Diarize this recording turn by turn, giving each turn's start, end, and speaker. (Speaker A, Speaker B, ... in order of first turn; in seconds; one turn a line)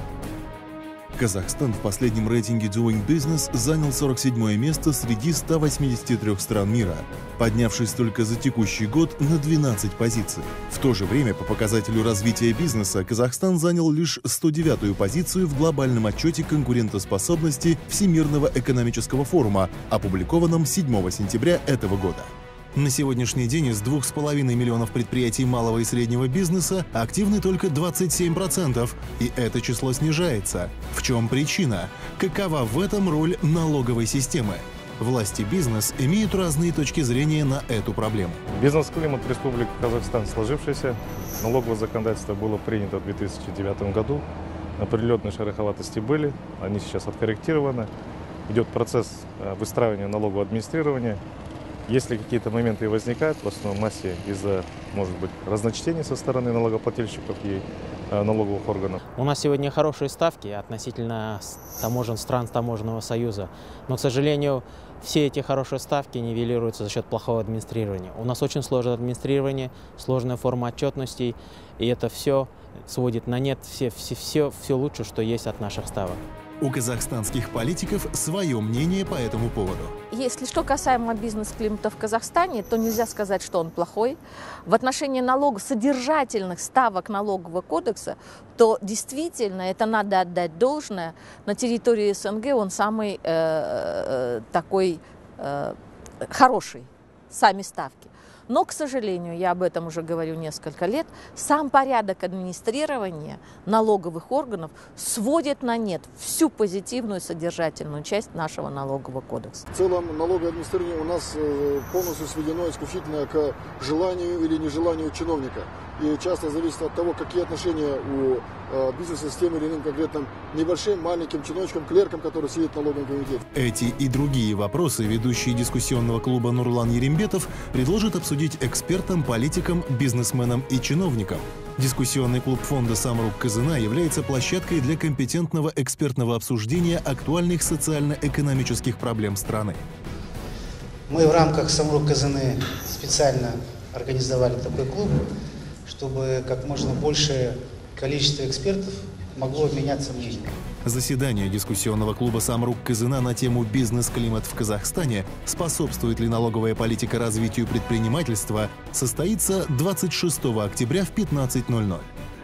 Speaker A: 1.1-38.4
Speaker B: 38.5-44.2
Speaker B: 44.8-47.9
Speaker B: 48.5-51.2
Speaker B: 51.9-59.0
Speaker C: 59.1-76.2
Speaker A: 76.6-79.9
Speaker D: 80.1-109.7
Speaker E: 109.7-123.4
Speaker A: 123.5-139.8
Speaker F: 141.1-145.2
Speaker F: 145.8-150.5
Speaker A: 150.8-162.1